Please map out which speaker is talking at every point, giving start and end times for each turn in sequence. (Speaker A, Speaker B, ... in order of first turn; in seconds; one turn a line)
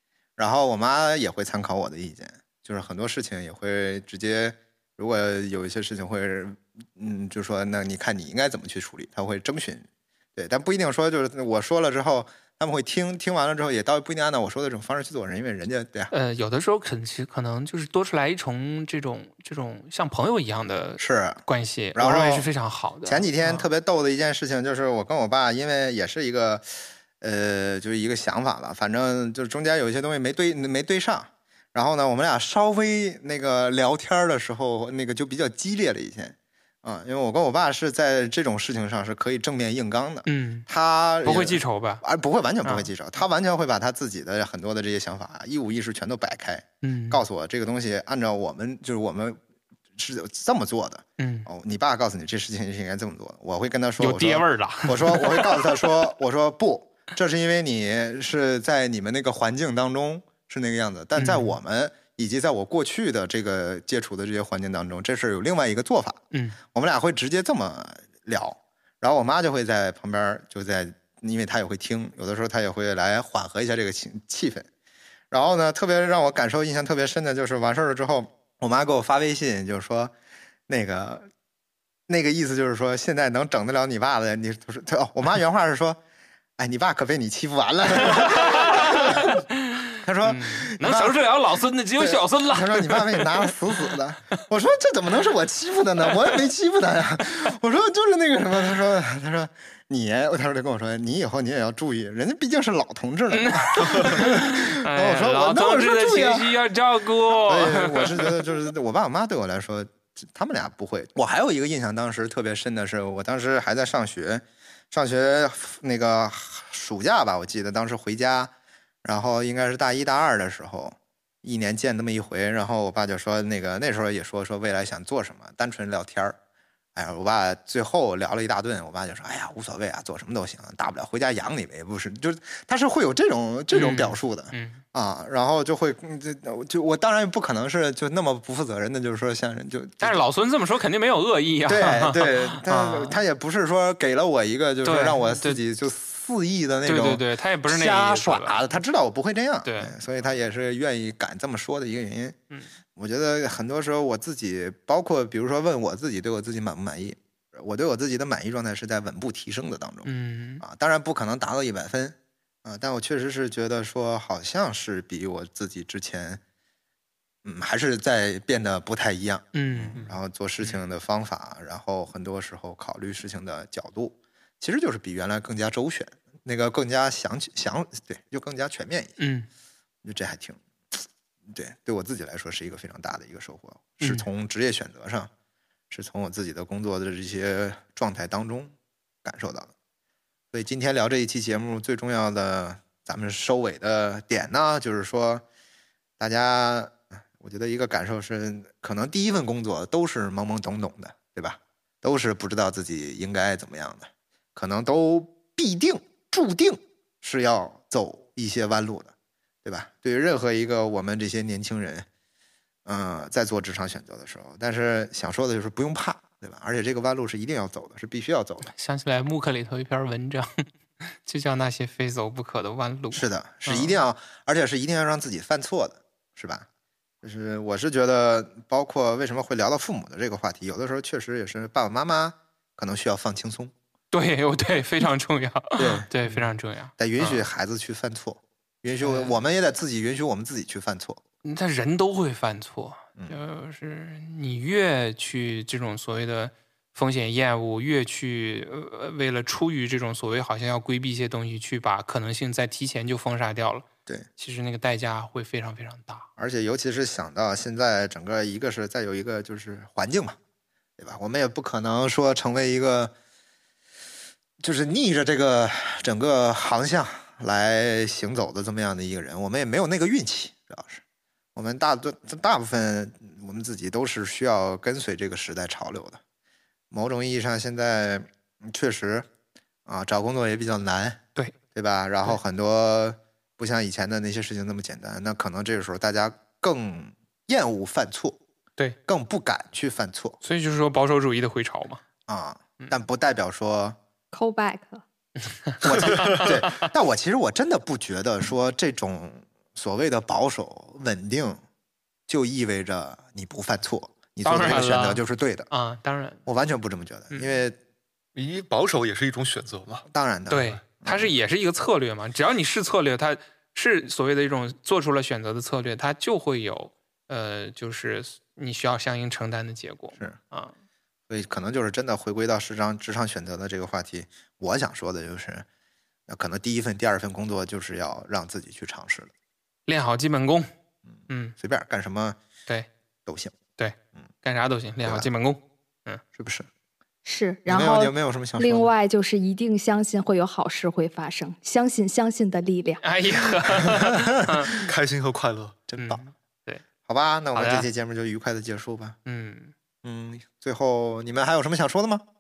Speaker A: 0.4-16.1
Speaker B: 16.1-23.7
Speaker A: 21.0-21.4
Speaker A: 21.9-22.5
Speaker A: 23.1-49.4
Speaker B: 40.3-40.7
Speaker B: 41.2-42.0
Speaker B: 42.6-42.9
Speaker B: 46.8-47.2
Speaker A: 50.0-66.2
Speaker B: 51.2-51.5
Speaker B: 54.0-55.8
Speaker B: 61.2-61.5
Speaker B: 66.3-66.6
Speaker A: 66.7-74.7
Speaker A: 75.3-80.1
Speaker A: 80.7-81.3
Speaker A: 82.1-86.0
Speaker A: 86.6-89.4
Speaker B: 88.1-89.4
Speaker A: 90.0-91.2
Speaker B: 90.2-94.4
Speaker A: 92.0-106.6
Speaker B: 103.3-108.3
Speaker A: 107.3-118.5
Speaker A: 119.0-126.4
Speaker A: 127.0-140.2
Speaker B: 133.7-134.8
Speaker B: 140.0-143.2
Speaker A: 141.7-152.4
Speaker B: 144.8-145.6
Speaker B: 146.8-148.6
Speaker B: 149.6-149.9
Speaker A: 152.9-160.1
Speaker B: 160.1-160.6
Speaker A: 160.6-166.4
Speaker A: 167.4-179.2
Speaker B: 169.5-170.0
Speaker B: 179.2-179.5
Speaker A: 180.0-185.3
Speaker B: 184.0-184.3
Speaker A: 185.9-189.7
Speaker A: 190.5-195.4
Speaker A: 196.2-209.1
Speaker A: 209.7-212.1
Speaker A: 212.9-218.7
Speaker B: 218.7-224.0
Speaker A: 223.1-226.7
Speaker A: 227.2-233.7
Speaker B: 234.1-237.4
Speaker A: 235.8-236.4
Speaker A: 237.0-241.2
Speaker B: 239.0-239.3
Speaker B: 241.4-253.9
Speaker B: 254.4-256.3
Speaker A: 256.4-260.4
Speaker A: 261.0-263.1
Speaker A: 264.6-271.0
Speaker A: 271.6-276.2
Speaker A: 276.9-279.3
Speaker A: 279.9-281.2
Speaker A: 281.8-288.4
Speaker A: 289.1-290.4
Speaker B: 290.4-292.0
Speaker A: 292.3-294.0
Speaker C: 294.3-295.0
Speaker B: 295.5-296.5
Speaker A: 295.8-301.6
Speaker D: 296.1-296.5
Speaker A: 302.3-305.7
Speaker B: 304.4-306.4
Speaker D: 304.6-304.9
Speaker A: 306.5-307.8
Speaker B: 307.3-307.6
Speaker D: 308.4-310.1
Speaker A: 310.1-311.3
Speaker B: 310.5-320.7
Speaker A: 321.3-325.6
Speaker A: 326.3-329.3
Speaker B: 329.9-330.7
Speaker A: 331.1-332.4
Speaker B: 331.3-331.6
Speaker A: 333.3-333.6
Speaker B: 333.8-336.2
Speaker A: 336.4-336.7
Speaker C: 337.2-343.0
Speaker A: 337.7-338.9
Speaker B: 343.0-344.8
Speaker A: 343.9-344.5
Speaker D: 344.8-345.8
Speaker A: 345.9-346.2
Speaker B: 346.0-346.8
Speaker A: 347.1-349.2
Speaker B: 347.6-347.9
Speaker B: 349.3-349.7
Speaker A: 350.0-352.2